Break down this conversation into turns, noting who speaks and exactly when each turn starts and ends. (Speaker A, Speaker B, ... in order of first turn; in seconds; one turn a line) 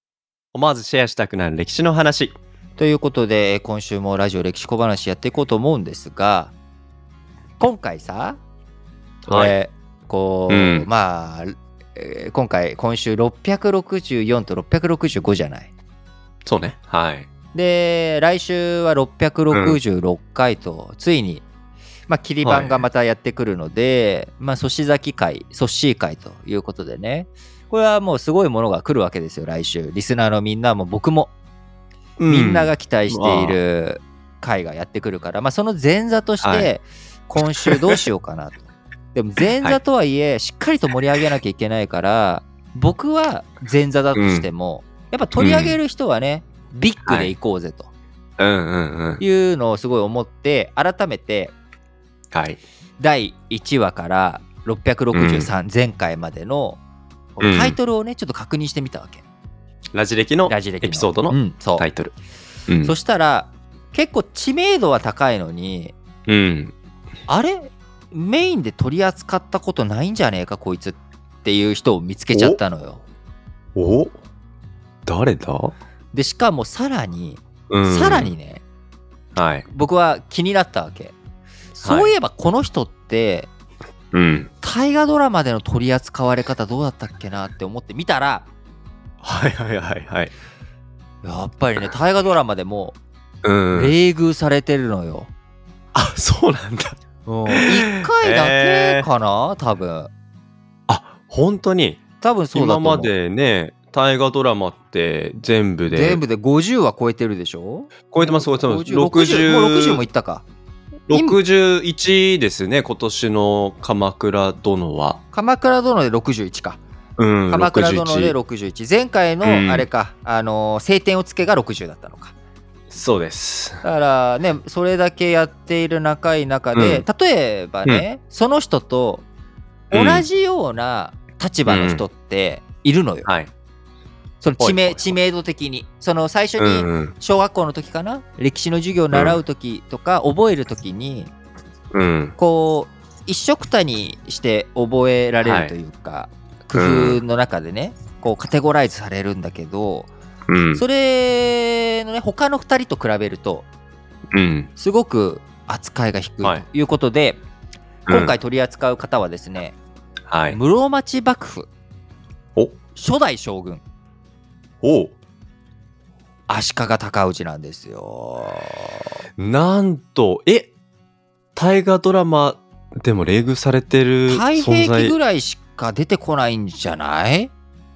Speaker A: 0.5-2.4
Speaker B: 2.8-6.5
Speaker B: 7.6-8.4
Speaker A: 9.2-9.5
Speaker B: 9.3-15.7
Speaker A: 10.5-10.9
Speaker A: 16.4-17.3
Speaker B: 17.5-21.4
Speaker A: 19.5-19.8
Speaker B: 22.1-31.3
Speaker A: 22.4-22.8
Speaker A: 32.2-33.6
Speaker B: 32.3-47.9
Speaker A: 36.4-36.7
Speaker A: 37.6-38.0
Speaker A: 44.1-44.5
Speaker A: 45.4-45.8
Speaker A: 47.1-47.3
Speaker A: 48.4-49.2
Speaker B: 49.2-51.5
Speaker A: 52.3-52.6
Speaker B: 53.0-56.8
Speaker A: 55.1-55.5
Speaker B: 57.4-59.2
Speaker A: 57.4-57.8
Speaker A: 59.9-62.1
Speaker B: 60.5-61.9
Speaker A: 62.7-63.0
Speaker B: 62.8-66.0
Speaker A: 66.3-66.7
Speaker B: 67.3-73.0
Speaker A: 72.3-72.6
Speaker A: 73.8-74.1
Speaker A: 75.1-75.8
Speaker B: 76.1-78.6
Speaker A: 77.7-78.3
Speaker A: 79.3-79.7
Speaker B: 79.7-81.2
Speaker B: 81.7-83.5
Speaker A: 81.8-82.1
Speaker A: 84.1-84.5
Speaker B: 84.6-88.5
Speaker A: 89.2-90.3
Speaker B: 91.2-93.0
Speaker A: 93.4-93.9
Speaker B: 93.7-95.3
Speaker A: 95.9-97.0
Speaker B: 97.3-100.1
Speaker A: 97.5-99.1
Speaker A: 100.9-102.0
Speaker B: 102.2-103.1
Speaker A: 102.5-106.2
Speaker B: 105.9-110.5
Speaker A: 108.1-110.0
Speaker A: 111.1-115.2
Speaker B: 111.1-111.4
Speaker B: 115.3-116.8
Speaker A: 117.2-118.4
Speaker B: 117.5-122.3
Speaker A: 119.4-119.9
Speaker A: 122.9-123.8
Speaker B: 123.8-129.2
Speaker A: 126.7-127.0
Speaker B: 129.9-133.3
Speaker A: 129.9-130.3
Speaker A: 131.7-132.1
Speaker A: 133.2-133.5
Speaker B: 134.4-141.3
Speaker A: 134.6-135.2
Speaker A: 136.6-137.2
Speaker A: 139.1-139.4
Speaker A: 141.9-142.4
Speaker B: 142.4-150.1
Speaker A: 145.4-145.8
Speaker A: 146.7-147.2
Speaker A: 150.5-150.8
Speaker B: 150.8-153.7
Speaker A: 154.3-154.7
Speaker B: 154.8-157.4
Speaker A: 158.1-158.3
Speaker B: 158.1-159.8
Speaker A: 160.3-160.6
Speaker B: 160.5-161.7
Speaker B: 162.9-163.8
Speaker A: 164.8-165.1
Speaker B: 166.5-169.1
Speaker A: 169.4-170.7
Speaker A: 171.6-175.2
Speaker B: 174.3-177.5